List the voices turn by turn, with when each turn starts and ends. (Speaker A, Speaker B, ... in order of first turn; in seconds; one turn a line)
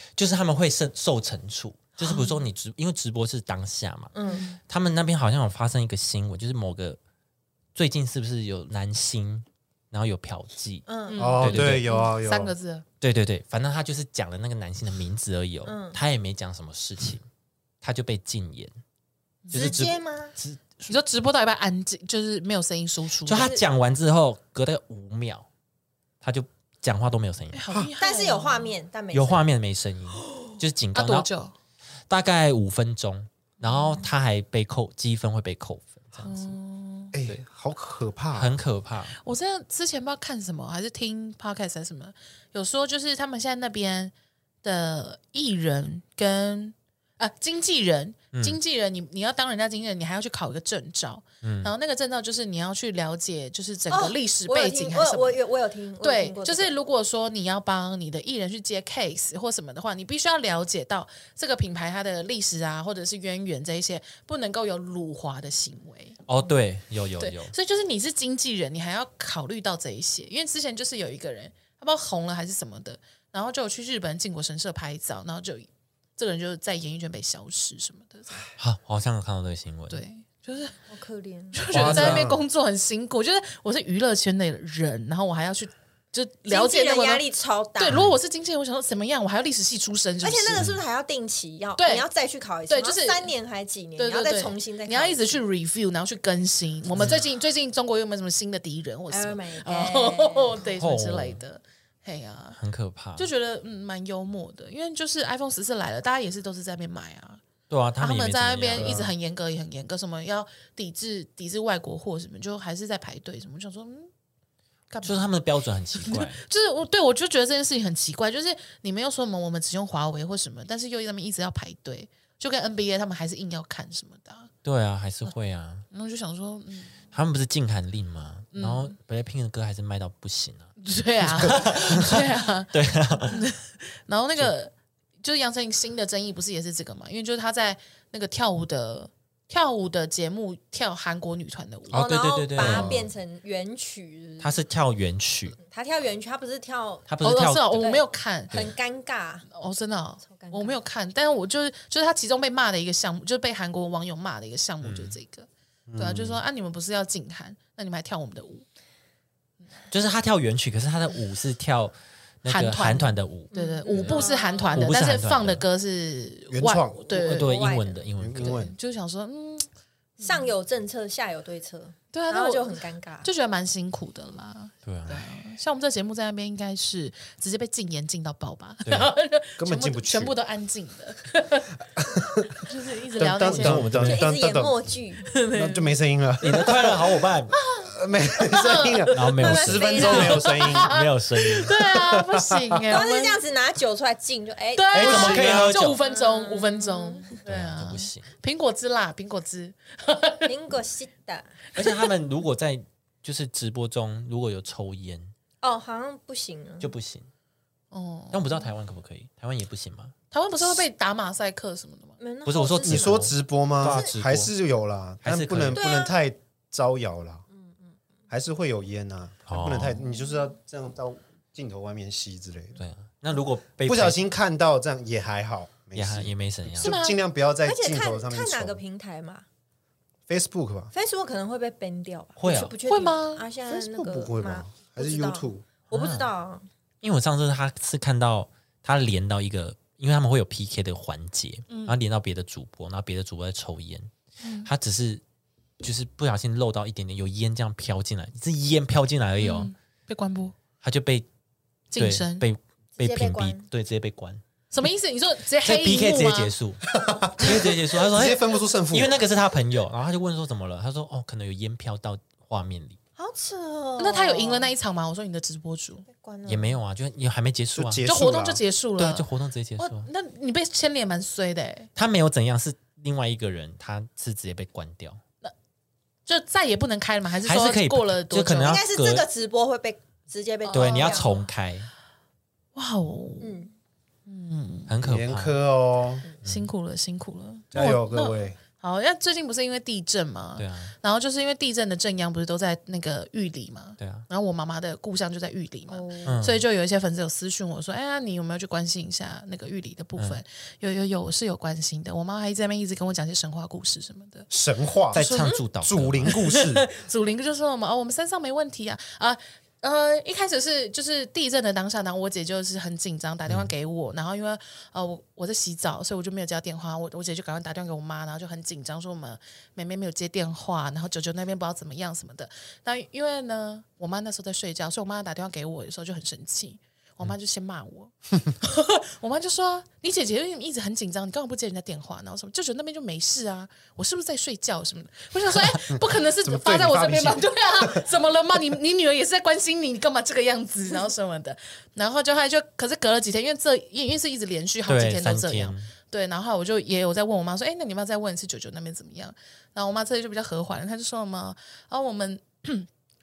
Speaker A: 0.2-4.1
Speaker B: 4.1-4.6
Speaker A: 4.7-7.0
Speaker A: 7.7-10.9
Speaker B: 10.8-11.4
Speaker C: 11.1-12.8
Speaker D: 11.2-12.5
Speaker A: 11.4-11.8
Speaker A: 13.0-17.2
Speaker B: 15.6-16.0
Speaker A: 17.8-18.7
Speaker C: 19.4-19.8
Speaker A: 19.5-20.9
Speaker B: 19.5-20.3
Speaker C: 20.9-23.5
Speaker A: 23.2-25.5
Speaker B: 23.3-23.6
Speaker A: 26.2-27.9
Speaker C: 27.5-28.7
Speaker B: 28.0-29.4
Speaker A: 29.1-31.3
Speaker C: 30.9-31.5
Speaker A: 32.1-36.5
Speaker C: 36.2-37.1
Speaker D: 37.1-38.5
Speaker A: 38.3-39.2
Speaker C: 39.1-55.4
Speaker A: 48.3-48.6
Speaker A: 51.4-51.7
Speaker B: 53.9-56.7
Speaker C: 56.0-66.2
Speaker A: 66.3-67.5
Speaker C: 67.2-78.4
Speaker A: 78.6-80.0
Speaker C: 79.9-80.8
Speaker B: 80.9-81.6
Speaker C: 81.5-90.7
Speaker A: 81.7-82.3
Speaker D: 81.7-82.4
Speaker B: 86.5-88.0
Speaker A: 87.9-88.2
Speaker B: 90.2-95.4
Speaker C: 91.8-92.1
Speaker C: 92.7-93.3
Speaker C: 94.0-102.6
Speaker A: 97.0-97.2
Speaker B: 99.1-100.6
Speaker A: 100.7-101.4
Speaker A: 102.5-103.3
Speaker C: 103.2-107.4
Speaker A: 107.7-109.0
Speaker C: 108.0-114.1
Speaker D: 108.8-109.1
Speaker C: 114.9-115.3
Speaker A: 115.0-116.4
Speaker C: 115.9-124.5
Speaker A: 124.6-125.8
Speaker C: 125.9-127.0
Speaker A: 127.1-130.7
Speaker C: 128.5-128.9
Speaker C: 130.8-132.7
Speaker A: 131.3-133.5
Speaker C: 133.2-134.7
Speaker C: 135.2-142.0
Speaker A: 141.9-143.1
Speaker B: 141.9-144.6
Speaker D: 142.6-143.1
Speaker A: 144.4-145.6
Speaker B: 145.6-147.1
Speaker A: 147.1-147.9
Speaker C: 147.2-148.7
Speaker B: 147.8-149.5
Speaker C: 149.5-158.6
Speaker B: 150.2-150.8
Speaker A: 154.8-155.2
Speaker D: 155.9-156.4
Speaker A: 159.9-165.6
Speaker C: 162.4-167.6
Speaker B: 163.5-164.8
Speaker D: 166.5-167.3
Speaker A: 167.1-168.7
Speaker B: 167.3-168.0
Speaker D: 168.2-168.7
Speaker C: 168.4-169.7
Speaker B: 170.2-173.3
Speaker C: 170.2-170.5
Speaker C: 172.1-181.7
Speaker A: 174.8-175.3
Speaker A: 178.8-179.1
Speaker D: 179.6-180.3
Speaker D: 181.9-182.6
Speaker C: 182.6-183.9
Speaker D: 183.2-184.8
Speaker A: 183.3-184.3
Speaker B: 184.0-185.3
Speaker C: 185.2-185.9
Speaker D: 185.5-186.9
Speaker A: 186.4-187.5
Speaker C: 187.5-193.4
Speaker D: 187.8-190.9
Speaker A: 189.1-191.8
Speaker B: 189.4-190.4
Speaker D: 191.9-193.0
Speaker B: 192.9-195.4
Speaker C: 194.7-200.6
Speaker A: 194.9-196.0
Speaker D: 195.0-195.7
Speaker B: 196.0-197.3
Speaker A: 197.4-198.3
Speaker B: 200.4-201.5
Speaker A: 201.7-205.3
Speaker B: 205.6-206.9
Speaker A: 206.8-207.3
Speaker C: 207.9-208.7
Speaker A: 208.3-210.1
Speaker C: 210.3-212.2
Speaker B: 212.2-213.3
Speaker A: 212.4-214.5
Speaker D: 212.8-217.4
Speaker B: 213.8-214.1
Speaker A: 215.2-215.8
Speaker B: 215.7-216.2
Speaker B: 217.5-217.9
Speaker D: 218.3-222.8
Speaker A: 219.4-220.0
Speaker A: 222.8-224.2
Speaker D: 223.8-228.8
Speaker A: 225.9-227.0
Speaker C: 226.8-227.2
Speaker B: 227.6-229.4
Speaker D: 230.3-230.9
Speaker B: 230.9-236.7
Speaker A: 232.4-232.7
Speaker C: 232.8-233.4
Speaker D: 233.7-235.7
Speaker A: 235.9-236.3
Speaker A: 237.0-244.1
Speaker C: 241.7-242.0
Speaker C: 244.4-244.7
Speaker A: 244.6-245.2
Speaker A: 245.8-249.7
Speaker C: 249.4-250.5
Speaker A: 250.8-251.3
Speaker C: 251.9-252.4
Speaker A: 251.9-254.4
Speaker B: 253.0-253.7
Speaker C: 254.7-256.5
Speaker A: 255.6-256.8
Speaker D: 256.9-259.2
Speaker A: 257.4-263.0
Speaker B: 263.2-264.7
Speaker C: 264.0-266.0
Speaker B: 266.0-266.8
Speaker A: 266.4-268.1
Speaker D: 267.7-268.6
Speaker C: 268.0-269.3
Speaker A: 269.0-270.1
Speaker C: 269.8-271.9
Speaker A: 271.9-275.2
Speaker C: 276.2-278.8
Speaker A: 277.4-279.3
Speaker B: 278.6-281.3
Speaker C: 280.6-281.5
Speaker A: 280.7-281.9
Speaker C: 282.8-283.6
Speaker B: 283.4-283.7
Speaker C: 284.3-284.9
Speaker A: 284.9-285.6
Speaker D: 285.0-286.2
Speaker A: 286.4-286.7
Speaker C: 286.4-304.5
Speaker D: 287.7-288.6
Speaker A: 290.6-290.9
Speaker A: 294.0-294.2
Speaker B: 295.9-296.4
Speaker A: 296.2-296.6
Speaker D: 304.5-306.9
Speaker A: 305.1-306.4
Speaker C: 306.2-352.9
Speaker D: 336.0-338.0
Speaker A: 344.9-345.9